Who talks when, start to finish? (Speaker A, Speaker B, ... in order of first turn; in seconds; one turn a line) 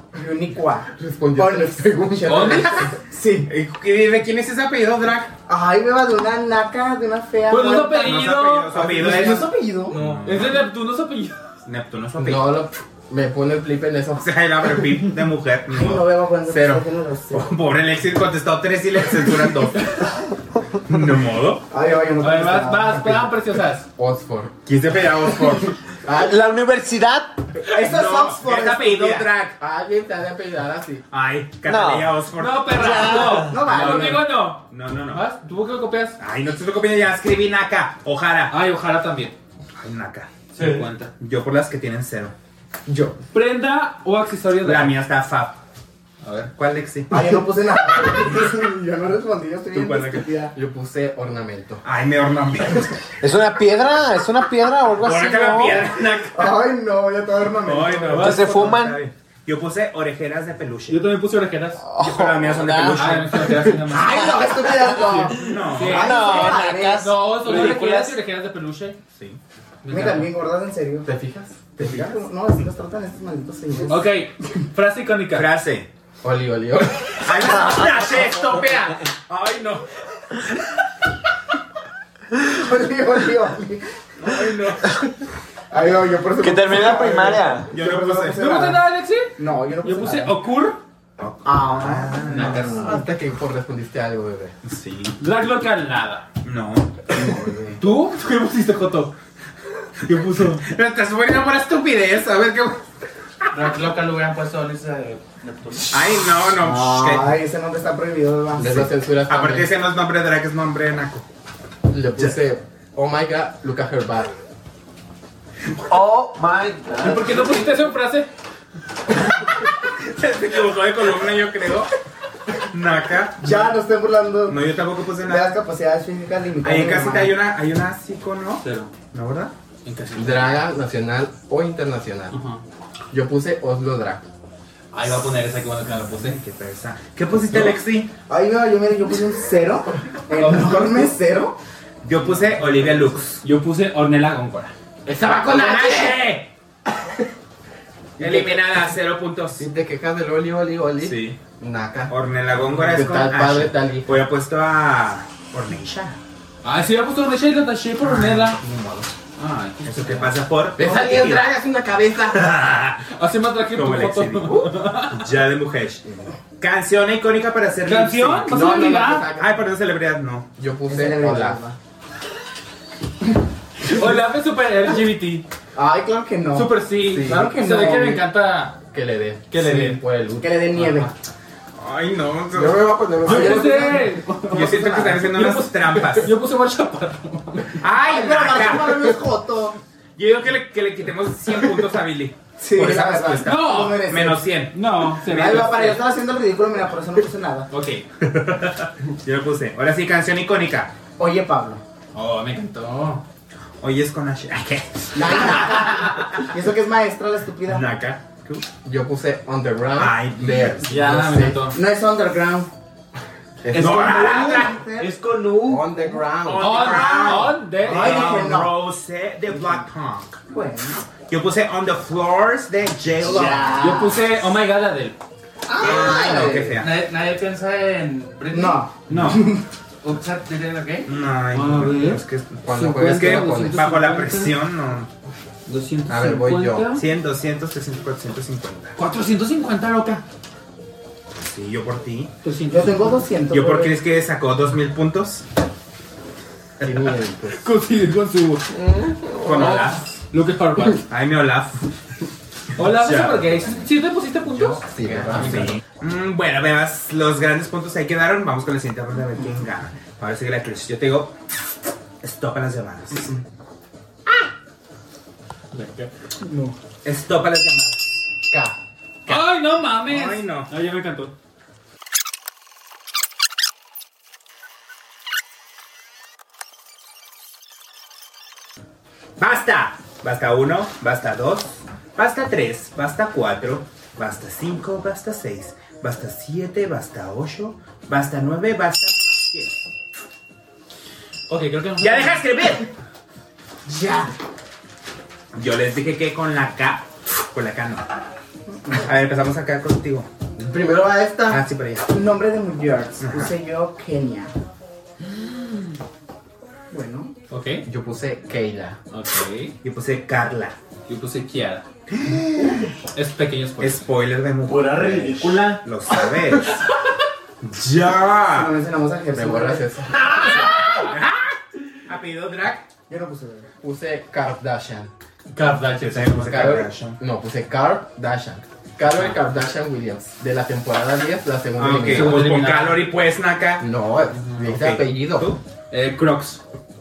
Speaker A: 0.1-3.5
Speaker B: 0.9-2.8
Speaker C: 2.2-2.9
Speaker D: 3.5-5.3
Speaker A: 5.5-9.9
Speaker C: 7.5-11.5
Speaker D: 7.8-10.7
Speaker D: 11.6-12.5
Speaker B: 12.2-15.0
Speaker D: 14.2-16.1
Speaker A: 15.7-17.5
Speaker B: 16.5-16.8
Speaker D: 17.3-20.1
Speaker D: 20.9-21.6
Speaker A: 21.7-23.3
Speaker C: 22.2-23.9
Speaker B: 23.9-26.4
Speaker D: 24.6-25.7
Speaker E: 26.1-27.4
Speaker A: 27.7-29.3
Speaker D: 27.7-29.6
Speaker B: 29.5-31.0
Speaker D: 31.1-35.2
Speaker E: 31.6-32.1
Speaker C: 32.3-36.2
Speaker E: 32.7-33.6
Speaker A: 33.4-34.3
Speaker D: 36.2-38.5
Speaker C: 38.5-39.3
Speaker D: 39.8-40.3
Speaker C: 40.5-41.1
Speaker D: 41.2-42.3
Speaker A: 42.9-43.2
Speaker C: 43.3-45.0
Speaker D: 44.6-45.6
Speaker C: 46.2-46.5
Speaker D: 46.5-47.1
Speaker A: 47.1-50.5
Speaker D: 49.7-50.2
Speaker B: 50.5-51.8
Speaker D: 51.8-52.9
Speaker E: 53.2-55.9
Speaker D: 55.0-56.6
Speaker A: 56.3-58.4
Speaker D: 57.6-61.0
Speaker C: 58.1-58.8
Speaker E: 58.1-59.0
Speaker C: 60.9-61.8
Speaker E: 61.8-63.7
Speaker D: 62.0-63.4
Speaker C: 62.9-64.3
Speaker A: 63.9-67.0
Speaker C: 65.0-69.0
Speaker D: 65.3-66.2
Speaker E: 65.9-68.2
Speaker C: 69.8-70.3
Speaker A: 69.9-71.1
Speaker B: 71.0-72.1
Speaker A: 71.8-74.0
Speaker C: 73.9-75.5
Speaker D: 75.3-75.9
Speaker B: 76.2-77.3
Speaker D: 77.2-79.8
Speaker C: 77.6-79.0
Speaker A: 82.3-84.5
Speaker D: 84.2-84.8
Speaker A: 85.7-90.4
Speaker E: 86.4-87.7
Speaker D: 87.7-88.5
Speaker C: 88.2-90.8
Speaker D: 91.2-92.8
Speaker A: 91.4-92.8
Speaker C: 92.2-93.0
Speaker B: 92.5-94.5
Speaker D: 94.6-95.2
Speaker C: 95.2-96.2
Speaker D: 96.4-97.3
Speaker A: 97.2-97.8
Speaker C: 97.8-99.1
Speaker C: 100.0-100.7
Speaker D: 100.6-102.8
Speaker F: 103.5-106.0
Speaker D: 105.9-107.4
Speaker A: 106.5-108.9
Speaker B: 108.6-109.7
Speaker D: 109.3-111.2
Speaker B: 111.9-114.3
Speaker E: 115.9-117.6
Speaker C: 117.0-118.3
Speaker D: 119.4-121.9
Speaker D: 122.7-123.8
Speaker A: 123.4-124.6
Speaker D: 124.5-125.5
Speaker A: 125.2-127.3
Speaker D: 126.6-129.5
Speaker C: 128.6-128.9
Speaker C: 129.8-130.6
Speaker B: 130.1-132.3
Speaker C: 132.3-132.6
Speaker B: 133.1-134.2
Speaker C: 134.9-136.4
Speaker D: 136.1-138.1
Speaker A: 138.3-141.6
Speaker C: 140.3-141.1
Speaker D: 142.0-143.4
Speaker C: 143.4-144.7
Speaker B: 145.1-146.2
Speaker D: 145.3-146.5
Speaker D: 148.2-149.7
Speaker C: 148.2-148.5
Speaker B: 149.6-152.1
Speaker D: 151.0-151.4
Speaker D: 152.1-156.2
Speaker B: 152.6-154.2
Speaker C: 156.6-158.6
Speaker D: 158.0-159.1
Speaker C: 159.4-161.4
Speaker D: 159.8-161.4
Speaker B: 160.8-162.5
Speaker D: 162.3-163.0
Speaker C: 163.1-165.3
Speaker D: 163.7-166.0
Speaker D: 166.6-170.5
Speaker C: 167.8-169.3
Speaker B: 168.5-169.6
Speaker B: 170.6-171.6
Speaker A: 170.9-171.8
Speaker C: 173.8-175.5
Speaker A: 175.7-178.2
Speaker C: 176.5-178.8
Speaker B: 177.0-177.5
Speaker B: 178.9-180.6
Speaker C: 179.5-180.0
Speaker A: 180.4-181.1
Speaker C: 180.8-181.1
Speaker D: 181.8-182.9
Speaker B: 182.5-184.2
Speaker C: 183.2-187.8
Speaker D: 184.5-186.3
Speaker D: 187.8-189.2
Speaker A: 188.0-189.8
Speaker D: 190.2-195.9
Speaker A: 192.6-194.5
Speaker C: 193.4-194.1
Speaker C: 194.7-196.0
Speaker A: 195.2-197.7
Speaker C: 197.7-198.0
Speaker D: 198.2-200.9
Speaker A: 201.2-201.8
Speaker C: 202.1-203.2
Speaker D: 203.8-206.2
Speaker A: 205.1-207.8
Speaker C: 205.4-205.9
Speaker D: 207.7-208.6
Speaker B: 208.8-211.7
Speaker D: 210.0-210.8
Speaker C: 210.8-211.8
Speaker A: 211.7-212.7
Speaker B: 213.6-214.2
Speaker D: 213.7-214.7
Speaker A: 213.7-215.1
Speaker E: 213.9-215.9
Speaker B: 215.6-216.9
Speaker D: 216.4-220.4
Speaker C: 216.6-218.5
Speaker A: 216.8-218.7
Speaker A: 220.5-221.0
Speaker D: 221.3-223.8
Speaker E: 223.2-224.2
Speaker C: 223.8-225.2
Speaker E: 225.7-226.5
Speaker A: 225.7-226.8
Speaker D: 225.8-226.9
Speaker F: 226.8-229.4
Speaker A: 228.5-229.6
Speaker D: 229.1-229.5
Speaker F: 230.0-231.1
Speaker D: 231.1-235.1
Speaker C: 231.5-234.6
Speaker B: 232.6-233.8
Speaker C: 235.7-237.0
Speaker B: 236.1-237.0
Speaker D: 236.9-238.9
Speaker C: 238.9-240.2
Speaker D: 241.4-242.3
Speaker C: 242.4-243.2
Speaker A: 242.7-243.9
Speaker D: 243.5-245.4
Speaker D: 246.8-247.0
Speaker B: 246.8-247.6
Speaker C: 247.5-248.9
Speaker B: 248.7-249.8
Speaker D: 249.4-250.2
Speaker C: 249.4-251.0
Speaker D: 251.1-251.8
Speaker C: 252.8-255.8
Speaker D: 252.8-253.5
Speaker B: 254.4-255.8
Speaker D: 255.3-261.3
Speaker D: 262.2-263.3
Speaker C: 265.7-266.1
Speaker A: 266.4-266.8
Speaker D: 267.0-268.2
Speaker B: 268.5-268.8
Speaker C: 269.3-271.3
Speaker D: 270.0-270.7
Speaker D: 279.4-289.8
Speaker C: 291.5-292.4
Speaker D: 292.0-292.9
Speaker A: 293.9-294.3
Speaker D: 295.5-298.1
Speaker A: 298.7-299.0
Speaker D: 299.0-300.3
Speaker B: 300.6-301.6
Speaker D: 301.5-302.1
Speaker A: 302.1-304.5
Speaker D: 303.2-303.5
Speaker A: 306.9-307.3
Speaker C: 307.5-307.9
Speaker B: 307.8-309.0
Speaker C: 309.1-309.7
Speaker D: 309.8-310.8
Speaker C: 311.1-311.9
Speaker D: 312.1-312.9
Speaker C: 313.1-314.0
Speaker D: 313.8-316.8
Speaker E: 314.6-315.9
Speaker D: 317.6-318.7
Speaker A: 318.5-319.9
Speaker B: 319.3-320.4
Speaker C: 320.6-321.1
Speaker D: 320.9-321.5
Speaker D: 322.1-322.9
Speaker A: 323.1-323.7
Speaker B: 323.8-325.1
Speaker C: 325.5-326.9
Speaker D: 326.0-327.2
Speaker B: 326.5-332.6
Speaker D: 331.8-333.9
Speaker C: 332.0-333.1
Speaker B: 333.8-335.5
Speaker D: 334.6-335.6
Speaker C: 335.9-336.6